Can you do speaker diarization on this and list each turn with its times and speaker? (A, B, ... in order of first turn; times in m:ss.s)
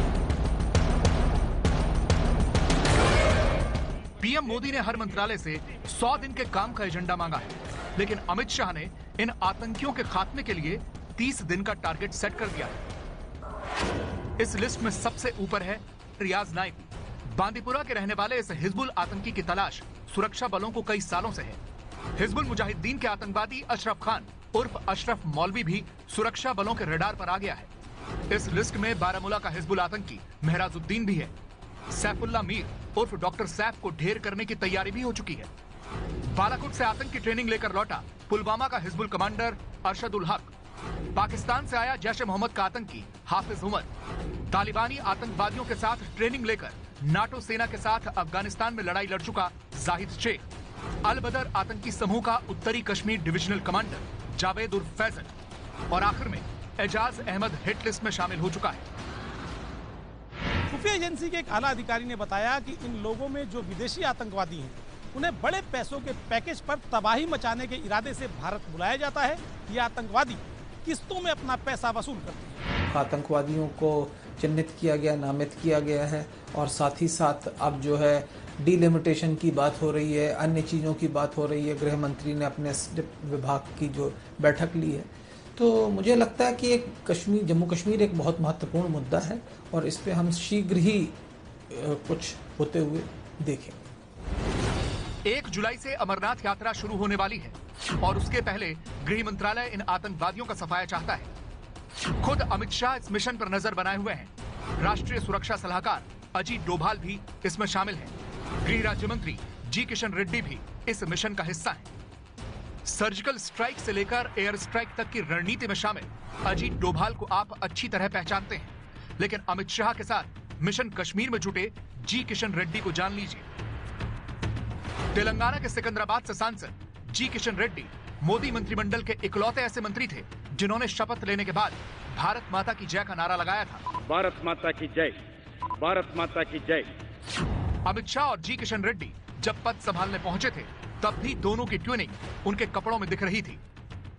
0:04.2-0:12.8 A
0:14.4-0:21.6 A
0:22.2-0:27.7 A
0:28.3-0:31.3 A
0:31.9-0:35.5 A
0:36.3-0:40.5 A
0:41.1-0:43.9 A
0:44.5-0:50.4 A
0:51.0-0:55.3 A
0:55.9-0:58.9 A
1:00.7-1:12.6 B
1:12.9-1:31.2 C
1:31.7-1:33.8 C
1:35.2-1:41.3 A
1:42.2-1:51.9 A
1:52.8-2:03.4 A
2:05.1-2:13.8 A
2:14.0-2:15.2 D
2:15.8-2:16.9 D
2:17.8-2:23.6 A